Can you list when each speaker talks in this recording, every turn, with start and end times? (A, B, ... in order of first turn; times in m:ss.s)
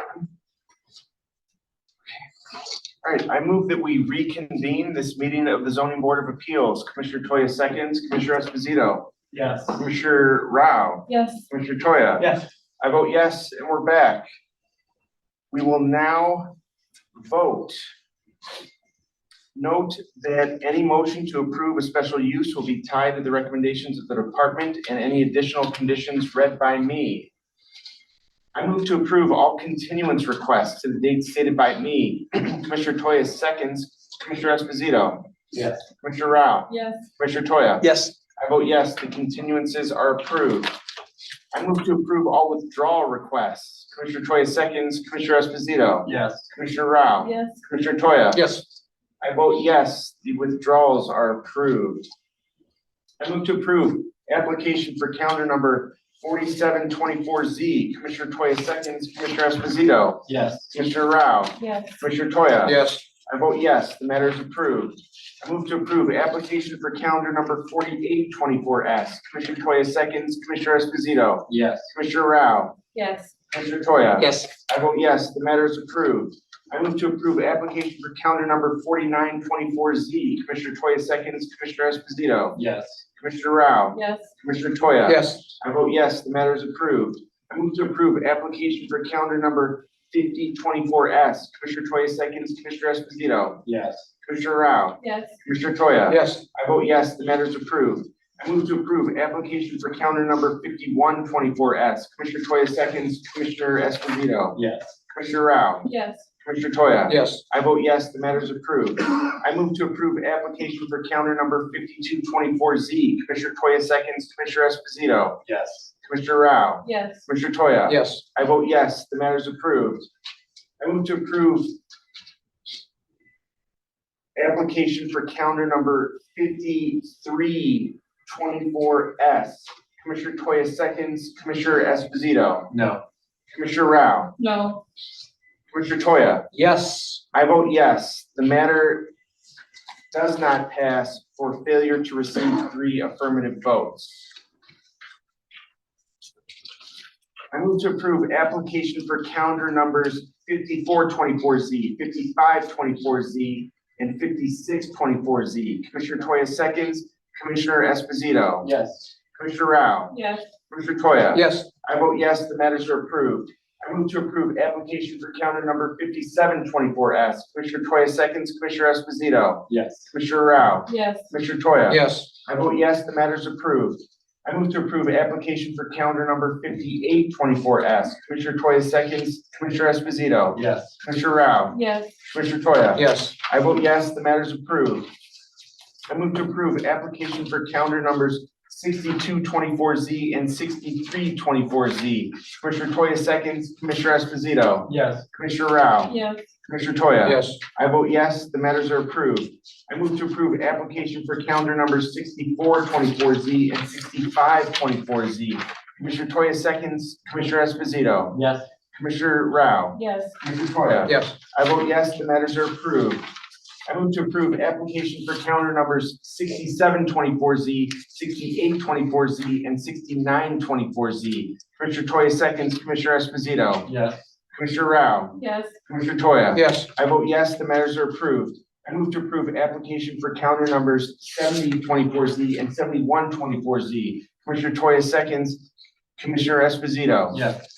0:03.0-0:09.1 A
0:09.3-0:09.8 B
0:09.7-0:12.3 A
0:11.1-0:11.5 C
0:12.2-0:12.4 B
0:12.8-0:14.2 A
0:15.5-0:16.5 A
0:17.2-0:17.8 A
0:19.6-0:27.3 A
0:28.6-0:35.3 A
0:35.5-0:35.8 B
0:36.0-0:37.9 A
0:36.7-0:37.1 C
0:38.4-0:40.7 A
0:41.5-0:48.4 A
0:46.0-0:46.5 B
0:47.2-0:47.6 C
0:48.3-0:48.6 D
0:49.2-0:52.1 A
0:53.2-1:12.8 A
1:00.3-1:00.7 B
1:01.6-1:01.9 C
1:02.6-1:03.0 D
1:11.5-1:11.9 B
1:12.9-1:13.3 C
1:13.5-1:22.6 A
1:22.6-1:23.0 B
1:23.2-1:33.6 A
1:23.9-1:24.3 C
1:25.1-1:25.5 D
1:33.6-1:34.1 B
1:34.2-1:44.6 A
1:35.0-1:35.3 C
1:36.1-1:36.4 D
1:44.6-1:45.0 B
1:45.1-1:45.9 A
1:45.8-1:46.2 C
1:46.4-1:55.4 A
1:47.1-1:47.4 D
1:55.5-1:55.9 B
1:56.0-2:00.1 A
1:56.8-1:57.2 C
1:57.9-1:58.2 D
2:00.8-2:01.7 A
2:04.4-2:12.7 A
2:12.7-2:13.0 B
2:13.5-2:14.3 A
2:14.4-2:14.8 C
2:15.7-2:16.5 A
2:16.5-2:17.2 D
2:17.3-2:19.1 A
2:20.1-2:24.3 A
2:27.5-2:38.7 A
2:38.6-2:39.1 B
2:39.4-2:40.2 A
2:40.1-2:40.4 C
2:40.7-3:05.1 A
2:41.3-2:41.7 D
2:49.7-2:50.1 B
2:50.9-2:51.3 C
2:51.9-2:52.3 D
3:00.5-3:00.9 B
3:01.7-3:02.1 C
3:03.0-3:03.3 D
3:06.1-3:28.4 A
3:14.9-3:15.2 B
3:16.1-3:16.4 C
3:17.2-3:17.6 D
3:28.3-3:28.7 B
3:28.9-3:33.3 A
3:29.9-3:30.4 C
3:31.1-3:31.3 D
3:33.9-3:43.9 A
3:43.8-3:44.2 B
3:44.5-3:55.6 A
3:45.4-3:45.7 C
3:46.5-3:46.9 D
3:56.2-3:57.4 A
3:57.3-3:57.6 B